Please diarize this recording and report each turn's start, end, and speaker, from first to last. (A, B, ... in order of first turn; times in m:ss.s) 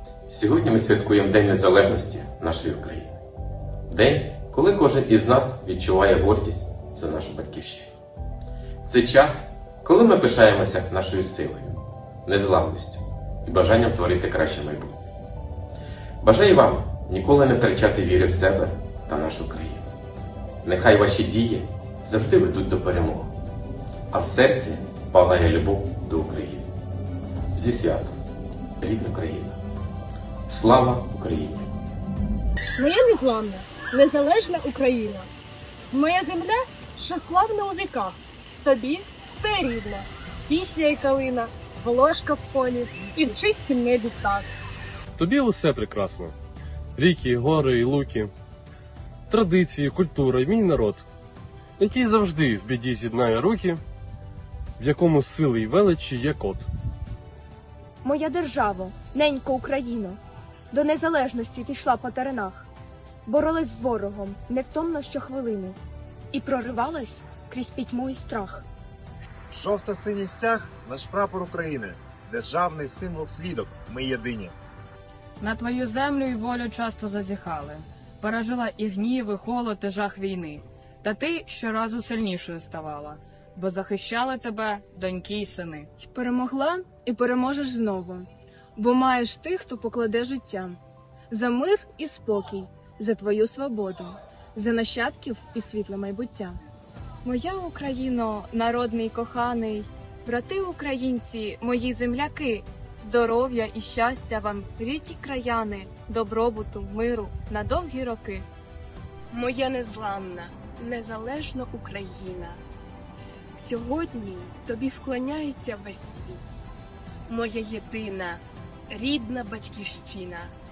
0:00.3-0:03.1 A
0:03.9-0:07.9 A
0:08.8-0:15.0 A
0:16.2-0:19.8 A
0:20.6-0:23.3 A
0:24.1-0:26.7 A
0:27.5-0:28.2 A
0:28.8-0:29.6 A
0:30.5-0:31.7 A
0:32.8-0:35.3 B
0:35.9-0:44.5 B
0:45.2-0:46.3 C
0:47.0-0:48.3 C
0:49.3-0:51.0 C
0:51.8-0:53.8 C
0:54.8-0:56.6 C
0:58.0-1:00.2 D
1:00.7-1:02.7 D
1:03.2-1:05.8 D
1:06.3-1:08.6 D
1:09.5-1:14.5 E
1:15.4-1:25.9 F
1:26.0-1:30.8 G
1:31.3-1:36.6 G
1:37.2-1:48.5 H
1:49.3-1:52.6 I
1:53.6-1:56.4 I
1:57.3-2:00.5 I